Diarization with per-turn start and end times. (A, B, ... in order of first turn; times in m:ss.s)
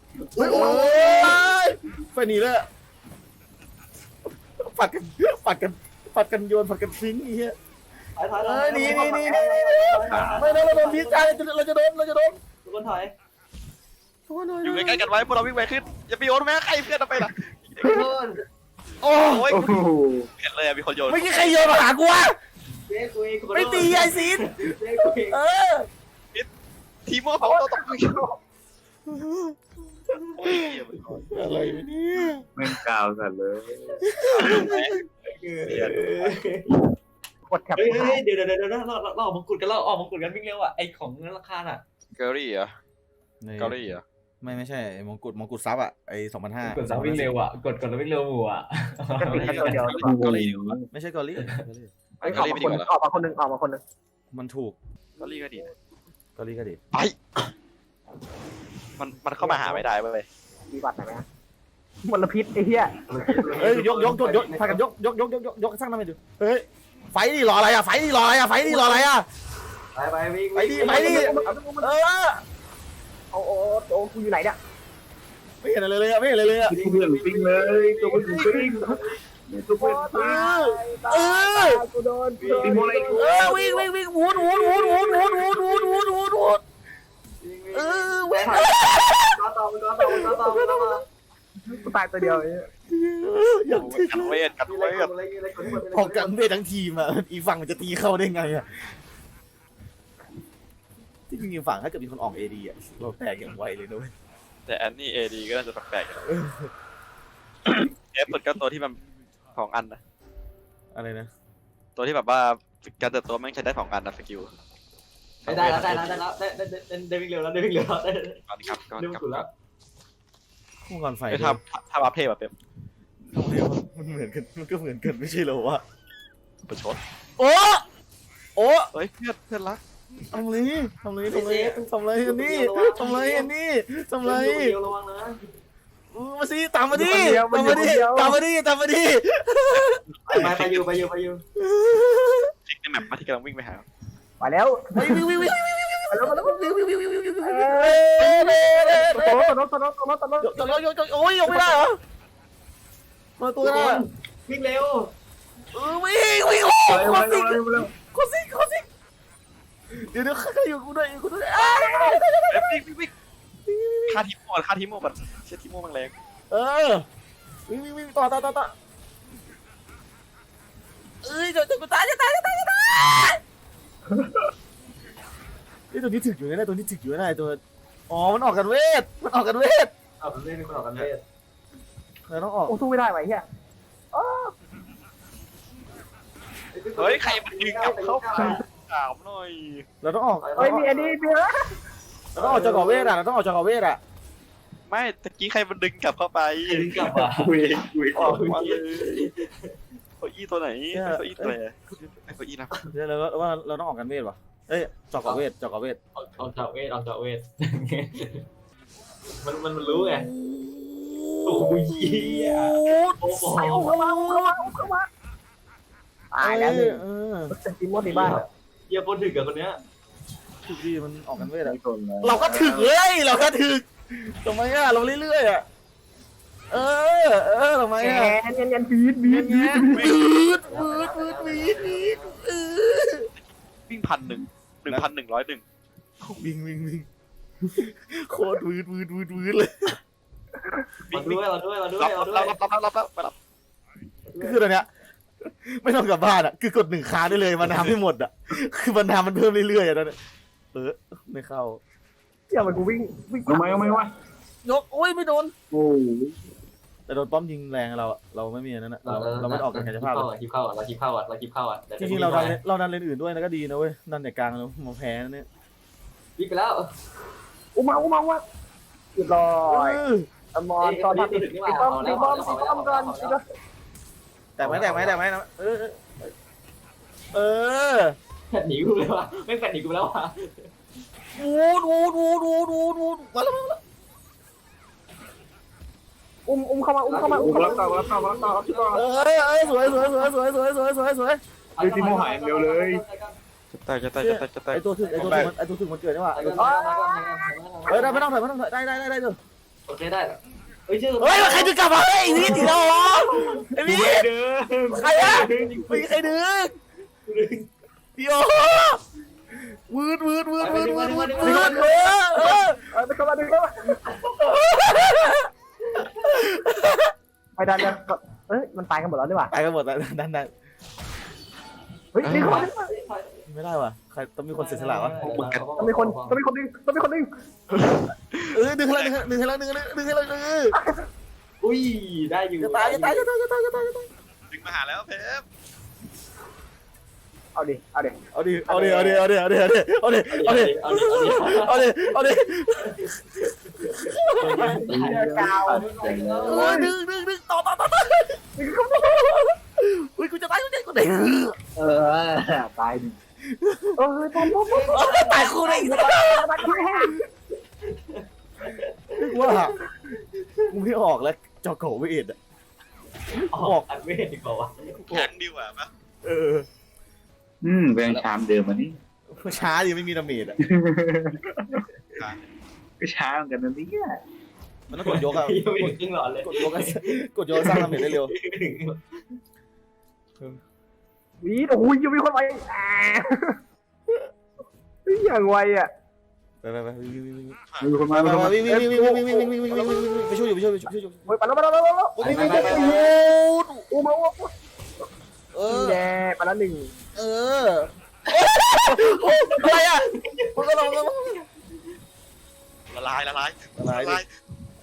0:00.3-0:01.4 A
0:00.4-0:02.7 B
0:04.6-0:07.6 B
0:08.2-0:11.4 A
0:08.4-0:12.4 B
0:10.1-0:10.4 C
0:12.5-0:13.1 A
0:14.3-0:15.1 B
0:14.6-0:18.1 D
0:17.8-0:18.4 A
0:19.0-0:19.6 B
0:19.3-0:19.8 D
0:19.5-0:20.3 C
0:20.4-0:21.4 D
0:21.1-0:22.4 B
0:22.9-0:25.4 A
0:23.5-0:25.9 B
0:27.1-0:28.2 D
0:27.4-0:28.4 E
0:29.1-0:29.6 B
0:30.3-0:31.3 D
0:31.3-0:32.5 B
0:32.6-0:34.7 C
0:34.0-0:35.0 B
0:34.3-0:35.0 D
0:35.2-0:36.8 A
0:35.7-0:36.4 D
0:37.5-0:38.2 E
0:37.8-0:41.8 A
0:42.2-0:42.8 D
0:43.4-0:43.8 B
0:43.6-0:44.0 D
0:44.4-0:47.4 B
0:46.7-0:50.1 A
0:49.2-0:50.0 E
0:49.3-0:50.8 D
0:50.0-0:50.9 C
0:50.9-0:51.9 B
0:51.4-0:51.7 A
0:52.2-0:52.9 D
0:52.2-0:53.8 E
0:54.3-0:54.8 B
0:55.2-0:55.7 D
0:56.4-0:56.8 B
0:59.0-1:00.3 D
0:59.4-0:59.8 E
1:00.7-1:01.2 E
1:02.0-1:03.5 E
1:03.1-1:04.8 A
1:03.6-1:09.3 B
1:09.9-1:11.6 A
1:10.6-1:12.4 B
1:10.8-1:11.9 E
1:13.3-1:14.6 E
1:15.6-1:16.8 B
1:16.7-1:20.4 C
1:16.7-1:19.2 A
1:18.2-1:18.9 B
1:19.8-1:23.9 E
1:20.2-1:21.8 B
1:22.4-1:23.6 A
1:22.6-1:23.3 C
1:23.1-1:26.6 B
1:24.4-1:26.0 A
1:27.4-1:31.0 A
1:27.7-1:29.4 B
1:30.0-1:31.0 B
1:31.7-1:32.7 E
1:32.2-1:34.4 B
1:33.7-1:35.1 D
1:34.7-1:36.5 A
1:35.7-1:38.9 B
1:41.3-1:44.1 B
1:44.7-1:46.2 D
1:46.2-1:46.7 B
1:48.1-1:49.0 D
1:49.6-1:50.0 D
1:50.9-1:51.3 B
1:52.0-1:54.5 D
1:55.4-1:56.2 D
1:55.5-1:59.5 A
1:58.5-1:59.4 D
2:00.9-2:01.6 B
2:01.3-2:02.5 D
2:03.3-2:05.8 B
2:06.7-2:07.0 D
2:07.4-2:07.8 B
2:08.6-2:08.9 B
2:08.9-2:09.8 D
2:10.3-2:14.8 B
2:11.3-2:13.5 A
2:14.2-2:15.4 A
2:16.1-2:20.5 B
2:16.9-2:18.4 E
2:19.7-2:20.9 D
2:20.3-2:21.4 A
2:21.6-2:22.5 B
2:22.7-2:23.8 D
2:24.4-2:25.4 E
2:24.9-2:29.5 B
2:26.1-2:26.7 E
2:27.4-2:30.8 E
2:30.4-2:32.0 B
2:31.5-2:31.8 E
2:33.4-2:34.1 B
2:33.6-2:35.1 A
2:35.7-2:38.9 B
2:36.9-2:37.9 C
2:39.9-2:42.8 B
2:42.5-2:43.1 D
2:43.7-2:44.2 B
2:44.1-2:46.1 D
2:46.5-2:47.0 B
2:47.7-2:48.7 B
2:51.2-2:53.4 B
2:55.9-2:59.9 B
3:00.2-3:01.2 A
3:02.3-3:02.8 B
3:02.7-3:03.4 E
3:04.1-3:04.5 E
3:06.7-3:08.6 A
3:07.0-3:09.9 D
3:10.0-3:10.9 B
3:10.4-3:11.2 A
3:10.6-3:11.7 E
3:12.4-3:14.0 B
3:12.4-3:13.2 A
3:14.9-3:16.9 D
3:16.7-3:17.6 A
3:16.7-3:19.3 C
3:18.1-3:19.8 A
3:18.2-3:18.8 D
3:20.2-3:22.7 D
3:20.9-3:21.6 B
3:22.9-3:26.0 B
3:26.2-3:28.5 A
3:29.4-3:30.3 A
3:29.8-3:33.2 B
3:31.4-3:34.0 A
3:33.6-3:35.1 E
3:33.7-3:34.6 B
3:36.3-3:38.4 E
3:36.4-3:37.5 B
3:38.0-3:39.8 A
3:40.7-3:45.6 B
3:41.4-3:42.9 C
3:46.7-3:48.4 B
3:48.0-3:50.1 E
3:49.3-3:53.3 B
3:49.9-3:50.2 D
3:50.6-3:52.4 A
3:53.4-3:55.6 D
3:56.2-3:57.1 B
3:57.7-4:00.0 B
4:01.1-4:01.4 D
4:01.1-4:02.6 A
4:02.0-4:03.4 D
4:04.3-4:04.6 A
4:04.4-4:04.9 B
4:05.4-4:10.2 B
4:10.7-4:11.8 B
4:12.5-4:14.1 E
4:13.5-4:14.1 C
4:14.6-4:15.5 B
4:15.7-4:16.4 C
4:17.1-4:20.3 B
4:19.0-4:22.6 A
4:22.0-4:25.5 B
4:26.4-4:26.9 A
4:27.8-4:28.4 E
4:29.2-4:30.0 E
4:29.7-4:30.3 B
4:30.5-4:33.4 E
4:30.8-4:33.4 A
4:34.6-4:36.3 B
4:34.6-4:35.2 A
4:37.3-4:38.2 B
4:38.5-4:40.7 A
4:41.4-4:43.8 B
4:46.5-4:48.2 E
4:47.1-4:50.2 A
4:47.4-4:49.0 C
4:48.9-4:51.4 B
4:51.8-4:53.4 A
4:51.8-4:53.0 C
4:53.7-4:55.5 D
4:54.2-4:56.6 B
4:55.0-4:55.4 A
4:55.2-4:55.5 C
4:56.3-4:58.3 A
4:56.6-4:57.5 E
4:57.9-4:59.4 B
4:59.9-5:03.8 A
5:01.2-5:04.3 B
5:02.4-5:02.7 C
5:03.8-5:06.0 C
5:04.9-5:06.8 B
5:04.9-5:06.2 A
5:07.3-5:07.7 A
5:08.2-5:09.0 B
5:09.6-5:12.8 B
5:10.6-5:11.9 A
5:11.4-5:14.0 E
5:13.9-5:14.4 A
5:14.4-5:15.5 B
5:15.8-5:16.4 A
5:16.2-5:17.1 B
5:17.6-5:19.5 E
5:19.5-5:20.5 B
5:22.1-5:22.9 E
5:22.2-5:22.7 D
5:22.3-5:23.5 A
5:23.5-5:25.4 B
5:24.5-5:26.4 A
5:25.2-5:25.7 D
5:25.8-5:27.3 E
5:28.4-5:29.1 D
5:28.5-5:30.8 B
5:30.7-5:31.0 E
5:31.6-5:33.3 A
5:32.6-5:34.1 B
5:34.5-5:35.4 D
5:37.6-5:39.2 E
5:38.3-5:44.9 B
5:40.3-5:42.2 A
5:42.8-5:46.9 A
5:44.7-5:46.8 C
5:45.0-5:45.9 E
5:46.5-5:48.4 B
5:46.5-5:46.9 E
5:48.6-5:49.4 E
5:49.0-5:51.6 B
5:51.8-5:53.2 C
5:53.5-5:57.1 B
5:54.0-5:57.3 E
5:54.6-5:55.7 A
5:57.8-5:59.8 A
5:59.2-5:59.8 B
6:00.7-6:02.4 B
6:03.4-6:05.2 A
6:03.5-6:03.8 B
6:05.1-6:05.9 D
6:06.2-6:06.7 B
6:07.6-6:09.0 C
6:09.3-6:10.6 B
6:10.6-6:11.9 C
6:12.1-6:12.4 D
6:13.0-6:14.2 C
6:14.9-6:18.3 B
6:15.0-6:19.4 A
6:21.4-6:23.6 E
6:25.1-6:25.9 E
6:26.6-6:31.3 B
6:27.8-6:29.0 C
6:28.6-6:30.3 E
6:31.3-6:33.1 E
6:32.2-6:33.8 B
6:32.2-6:33.1 A
6:33.9-6:34.5 E
6:35.5-6:36.0 B
6:35.7-6:36.9 E
6:37.2-6:41.4 B
6:39.0-6:41.4 A
6:42.9-6:44.3 D
6:43.8-6:44.2 B